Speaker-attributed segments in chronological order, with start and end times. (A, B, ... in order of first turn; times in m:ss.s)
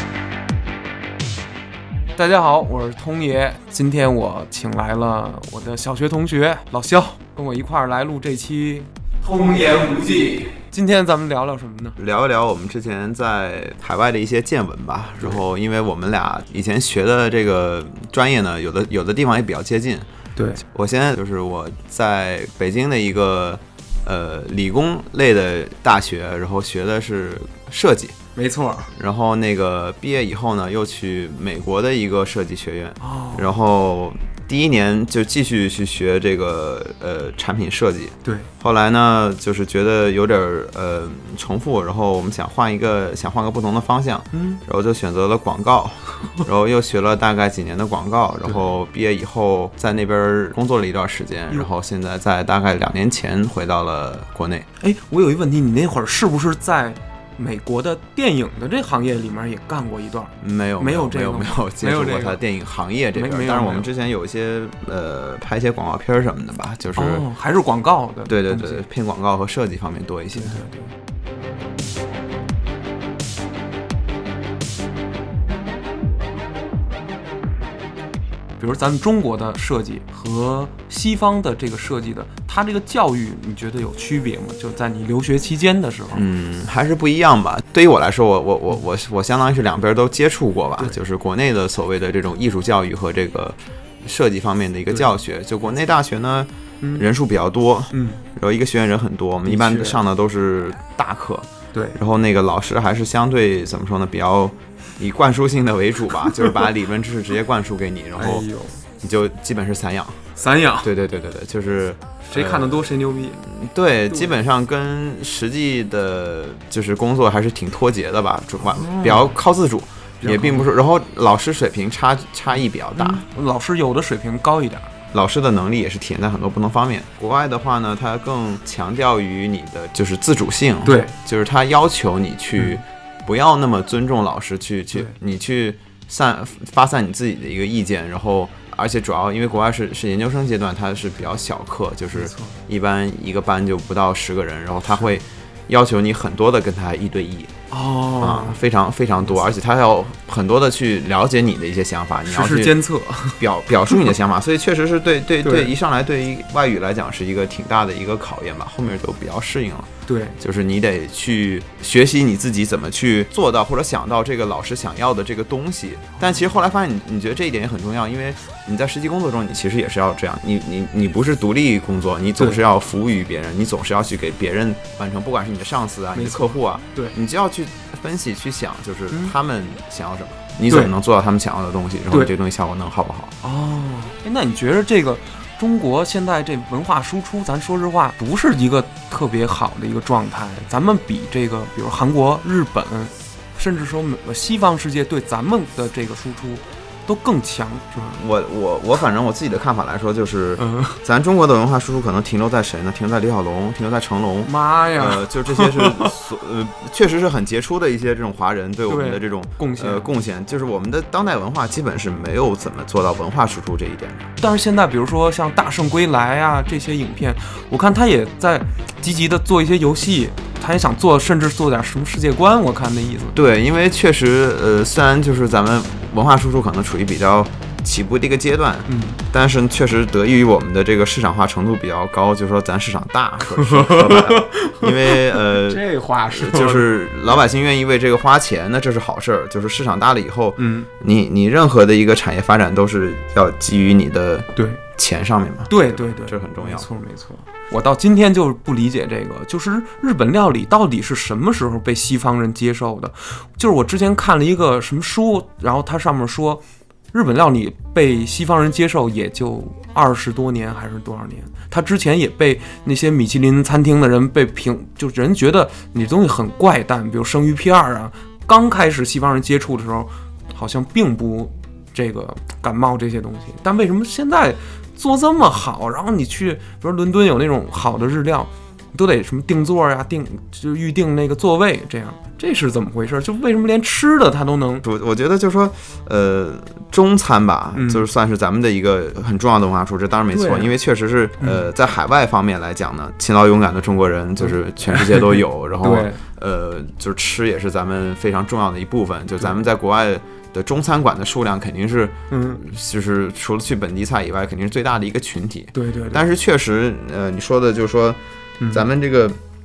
0:02.2-0:12.0 A
0:12.0-0:20.1 B
0:20.4-0:20.6 A
0:20.6-0:28.2 B
0:28.4-0:28.9 A
0:29.0-0:54.7 B
0:33.0-0:33.5 A
0:44.3-0:44.6 A
0:54.8-1:02.4 A
1:00.4-1:07.3 B
1:03.1-1:03.9 A
1:07.0-1:08.9 A
1:08.3-1:10.6 B
1:10.4-1:10.9 A
1:18.6-1:26.3 A
1:26.1-1:48.5 B
1:36.8-1:37.1 A
1:37.9-1:38.2 A
1:39.4-1:40.0 A
1:46.3-1:46.6 A
1:48.2-1:48.8 A
1:49.0-1:50.2 B
1:50.4-1:50.9 A
1:50.8-2:03.2 B
1:52.2-1:53.4 A
1:54.1-1:54.4 A
1:58.6-1:59.4 A
2:00.2-2:00.7 A
2:02.9-2:04.9 A
2:05.1-2:27.5 B
2:10.8-2:11.1 A
2:22.1-2:22.6 A
2:27.7-2:28.6 A
2:28.2-2:32.8 B
2:32.3-2:34.1 A
2:33.4-3:03.4 B
2:35.4-2:35.7 A
2:40.1-2:40.4 A
2:56.1-2:57.2 A
3:00.7-3:00.9 A
3:03.4-3:18.2 A
3:18.1-3:34.3 B
3:20.6-3:21.0 A
3:24.4-3:26.2 A
3:28.9-3:30.0 A
3:34.4-3:43.4 A
3:43.3-4:06.9 B
3:48.9-3:49.2 A
3:53.4-3:56.9 A
4:00.6-4:00.9 A
4:05.7-4:44.8 A
4:44.8-5:08.2 B
4:47.8-4:48.0 A
4:50.3-4:50.7 A
4:51.4-4:51.7 A
4:54.4-4:56.2 A
5:02.3-5:02.6 A
5:05.7-5:06.2 A
5:08.7-5:09.4 B